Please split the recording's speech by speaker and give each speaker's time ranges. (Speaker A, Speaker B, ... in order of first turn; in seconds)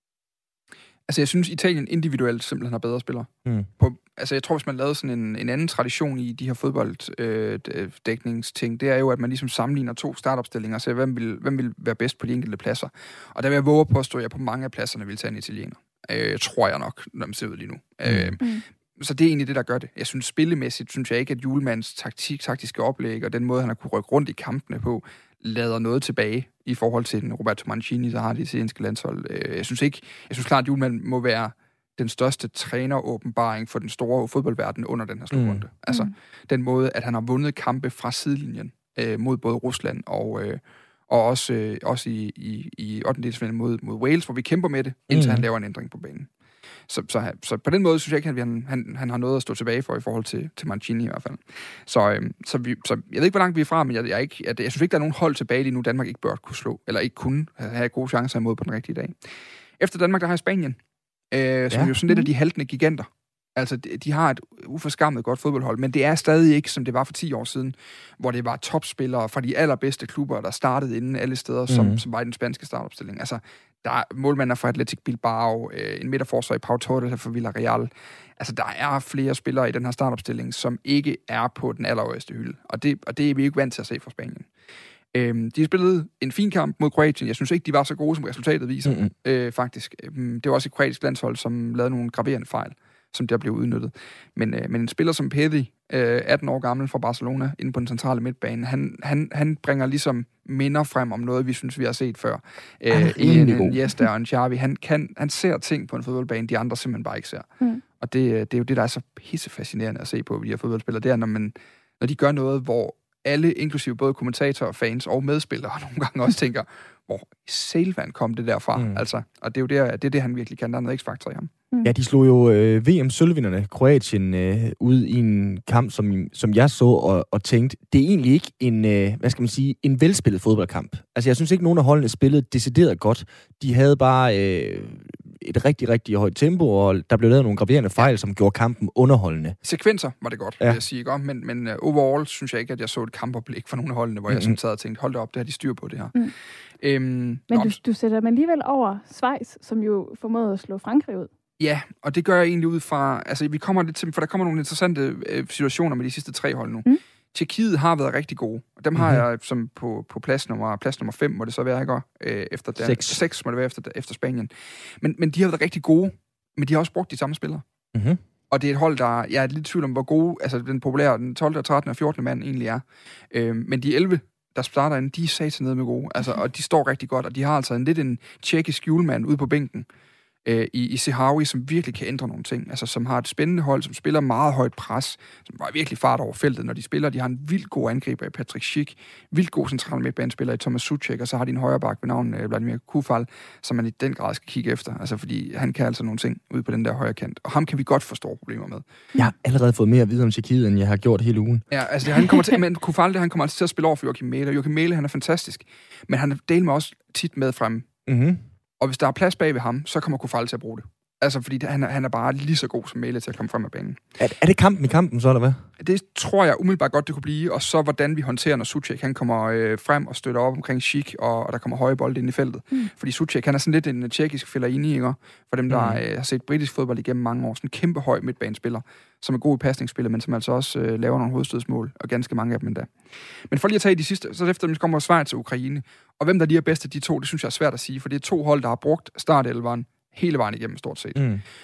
Speaker A: 1.1-46.3, 46.9-59.2, 59.8-60.8, 61.3-84.5, 85.1-121.5, 139.6-146.1, 146.8-147.8, 151.6-164.5, 165.0-167.6, 168.5-179.9, 180.4-198.8, 201.7-207.9, 208.8-214.0, 215.8-241.2
Speaker B: 18.1-18.4, 35.3-35.6, 45.1-45.5, 71.7-72.0, 88.8-89.1, 102.9-103.8, 118.8-119.0, 121.8-139.6, 144.3-144.6, 159.0-159.2, 162.8-163.2, 167.9-168.2, 199.2-201.7, 208.1-208.4, 214.2-215.6, 225.7-226.0, 241.2-241.4
Speaker C: 147.5-151.3